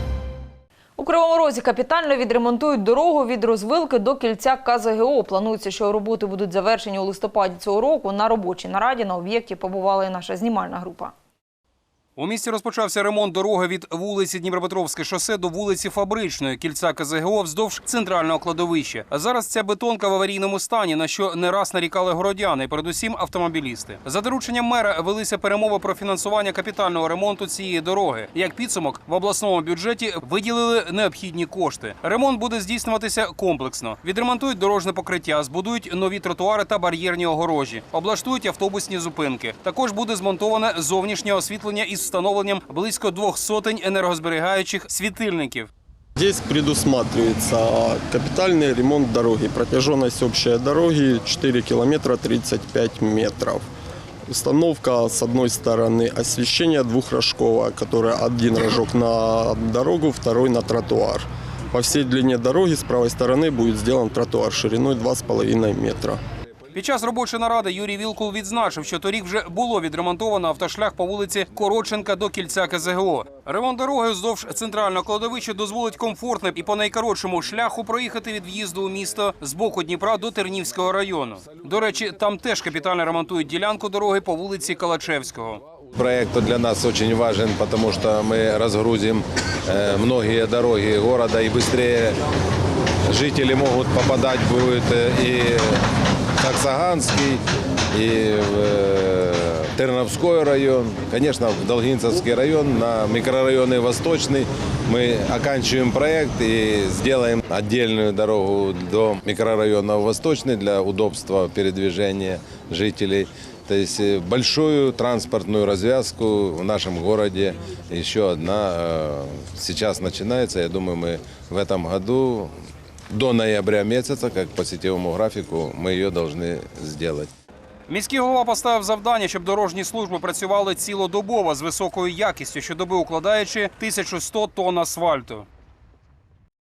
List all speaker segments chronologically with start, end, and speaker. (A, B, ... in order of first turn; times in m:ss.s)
0:01.0-0:11.1 A
0:12.2-0:45.7 B
0:46.2-0:53.6 C
0:54.3-1:06.2 C
1:06.7-1:25.6 B
1:25.9-1:32.2 D
1:33.1-1:35.8 D
1:36.4-2:02.5 D
2:03.1-2:07.3 D
2:07.9-2:15.5 B